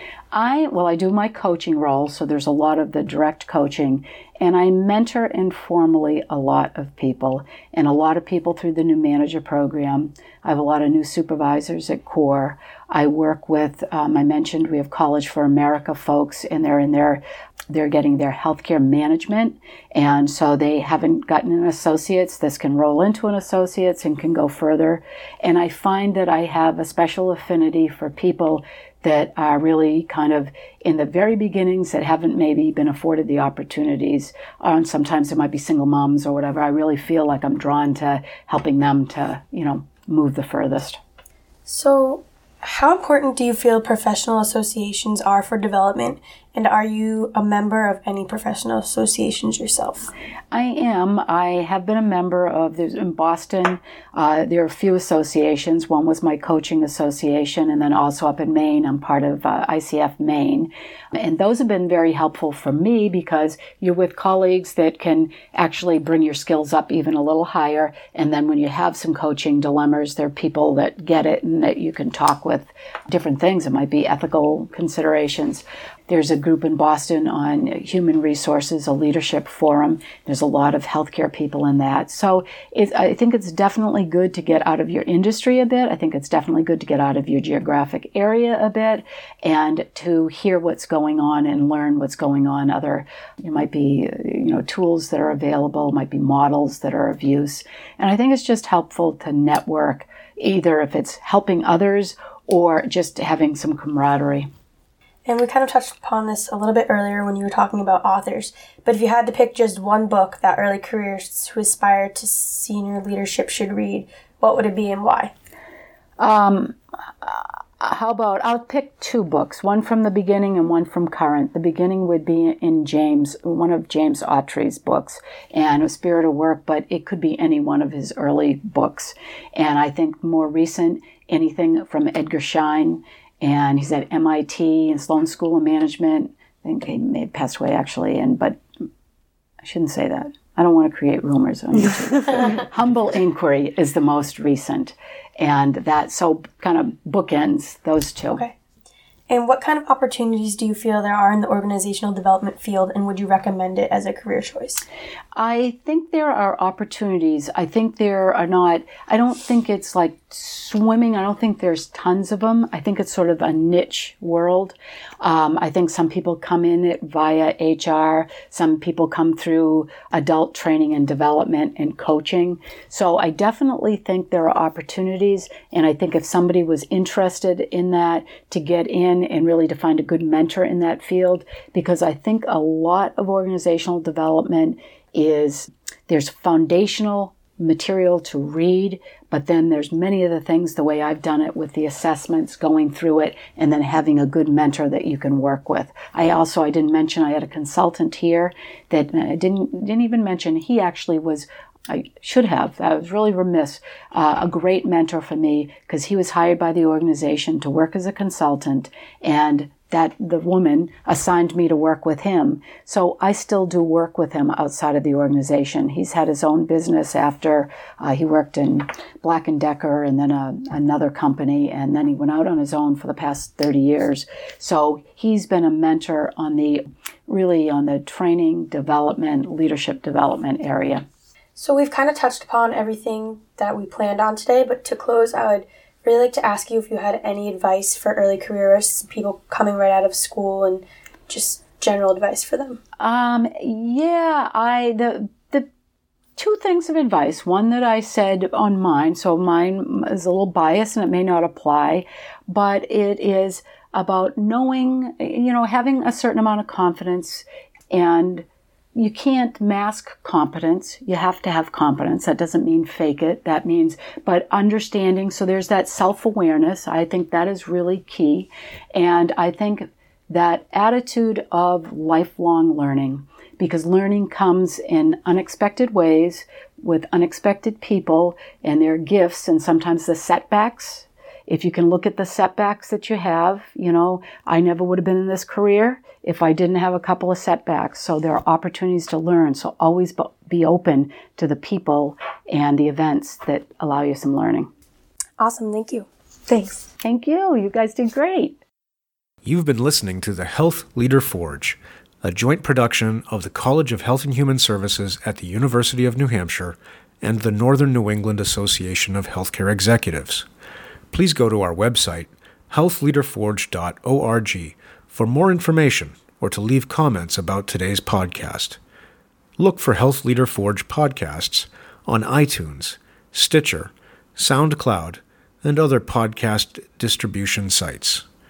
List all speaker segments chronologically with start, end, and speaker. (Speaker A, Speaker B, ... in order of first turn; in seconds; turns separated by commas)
Speaker A: 0.3-41.0, Speaker B: 41.7-50.1, Speaker A: 50.5-104.5, Speaker B: 105.2-115.3, Speaker A: 116.2-138.6, Speaker A: 139.6-148.4, Speaker B: 149.3-154.8, Speaker A: 155.4-231.1, Speaker B: 231.6-242.8, Speaker A: 243.0-245.7, Speaker A: 246.4-294.7, Speaker B: 295.4-296.9, Speaker A: 297.0-298.6, Speaker C: 299.4-310.4, Speaker C: 311.1-318.8, Speaker C: 319.6-328.2